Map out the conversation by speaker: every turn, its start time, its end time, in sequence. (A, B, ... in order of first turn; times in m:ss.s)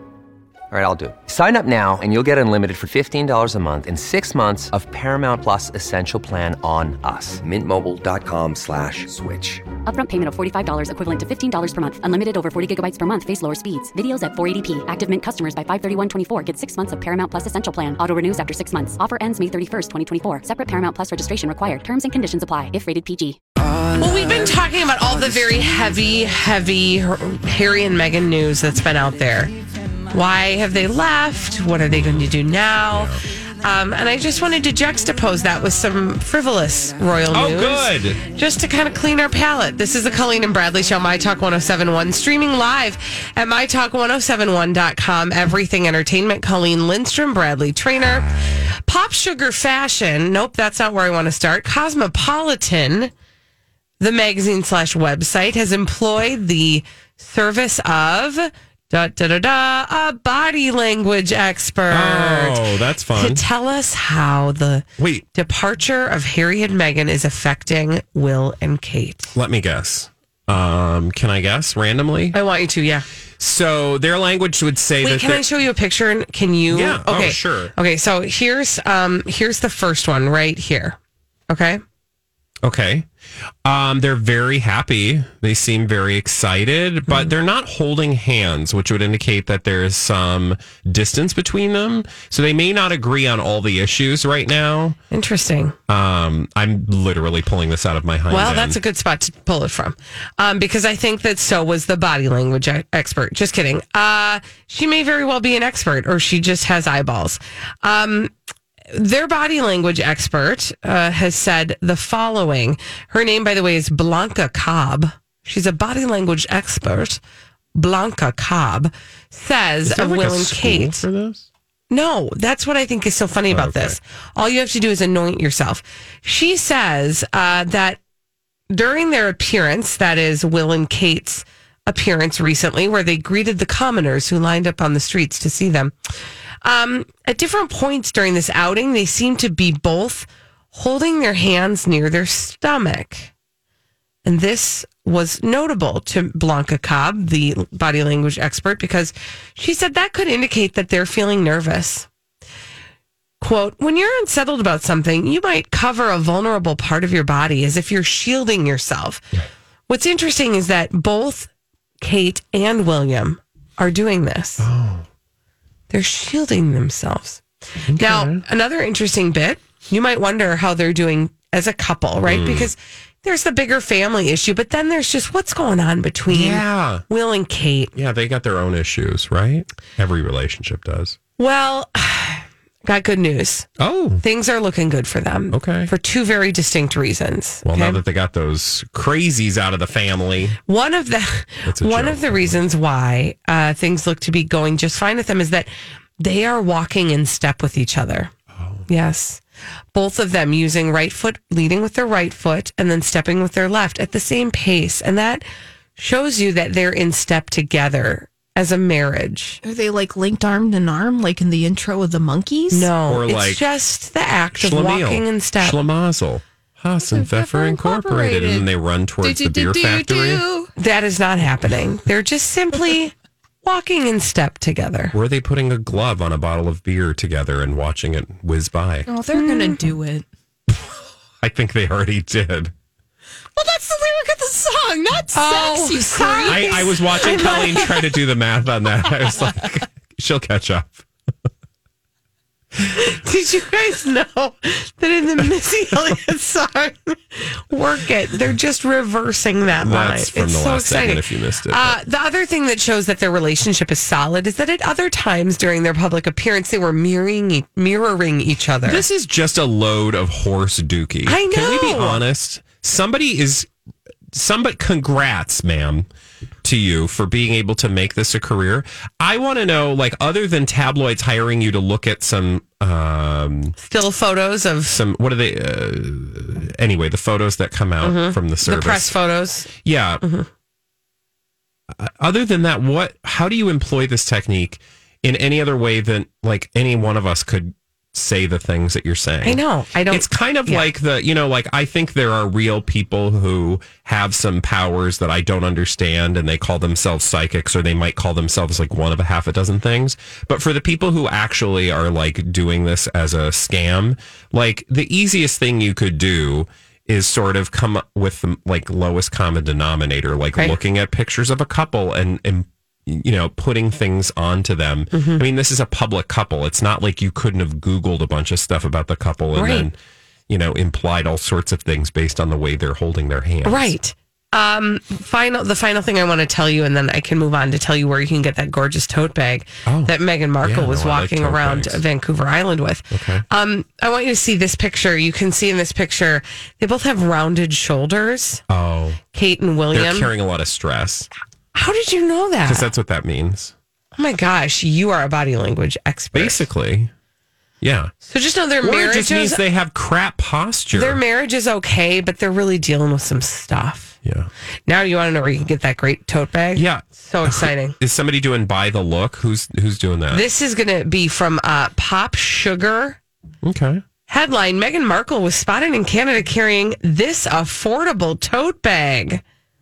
0:00.7-0:09.7 A
0:09.8-0:23.4 B
0:24.0-0:29.5 C
0:30.1-0:53.1 C
0:31.9-0:32.4 D
0:32.9-0:33.2 D
0:37.3-0:38.2 D
0:48.0-0:48.8 D
0:54.0-1:09.3 C
1:01.9-1:03.4 D
1:05.0-1:05.2 D
1:09.3-1:12.4 D
1:12.3-1:13.0 C
1:13.4-1:15.4 D
1:15.0-1:21.0 C
1:16.7-1:17.7 D
1:21.5-1:21.8 C
1:22.6-1:23.1 D
1:23.6-1:35.0 D
1:35.1-1:35.8 C
1:35.9-1:38.8 D
1:38.3-1:48.3 C
1:48.9-1:57.2 C
1:57.7-2:01.0 C
1:59.8-2:01.5 D
2:01.9-2:08.0 C
2:03.5-2:04.0 D
2:08.7-2:15.9 C
2:16.6-2:23.3 C
2:24.2-2:32.1 C
2:33.4-2:39.2 C
2:39.9-2:41.5 C
2:42.0-2:44.7 C
2:44.6-2:45.0 D
2:45.9-2:47.4 C
2:47.9-2:48.4 D
2:47.9-2:57.9 C
2:52.2-2:52.7 D
2:56.3-2:57.0 D
2:57.9-3:01.2 D
3:01.4-3:03.7 C
3:03.8-3:04.2 D
3:04.2-3:08.0 C
3:05.5-3:05.9 D
3:07.6-3:10.6 D
3:10.7-3:18.3 C
3:11.6-3:12.6 D
3:18.5-3:18.8 D
3:18.9-3:19.4 C
3:19.9-3:25.4 C
3:26.0-3:29.6 C
3:29.6-3:32.9 E
3:32.7-3:35.8 C
3:33.1-3:33.6 D
3:34.5-3:40.4 D
3:37.1-3:38.7 E
3:39.2-3:40.7 E
3:40.8-3:45.2 C
3:45.1-3:49.1 D
3:49.1-3:50.3 E
3:49.3-3:49.9 C
3:51.4-3:52.7 D
3:53.6-3:58.0 E
3:55.3-3:58.0 C
3:56.4-4:01.0 D
4:02.8-4:19.0 C
4:09.8-4:12.0 D
4:18.8-4:23.7 D
4:21.2-4:22.2 C
4:24.3-4:26.1 D
4:26.6-4:33.8 D
4:33.8-4:35.0 C
4:34.8-4:39.2 D
4:38.0-4:40.5 C
4:39.7-4:40.2 D
4:41.9-5:20.0 D
4:49.4-4:50.8 C
5:15.1-5:15.4 C
5:19.5-5:19.9 C
5:20.5-5:23.9 D
5:23.6-5:38.6 C
5:29.8-5:32.0 D
5:33.1-5:33.4 D
5:38.7-5:39.2 D
5:39.3-5:40.3 C
5:39.9-5:41.3 D
5:41.7-5:42.9 C
5:42.6-5:43.7 D
5:44.2-5:46.6 C
5:46.3-5:47.1 D
5:47.8-5:48.1 D
5:48.2-5:49.6 C
5:48.8-5:51.2 D
5:50.9-5:54.2 C
5:54.2-5:54.5 D
5:54.9-5:58.0 C
5:56.7-6:00.4 D
6:00.3-6:03.2 C
6:03.6-6:04.0 D
6:04.3-6:09.4 C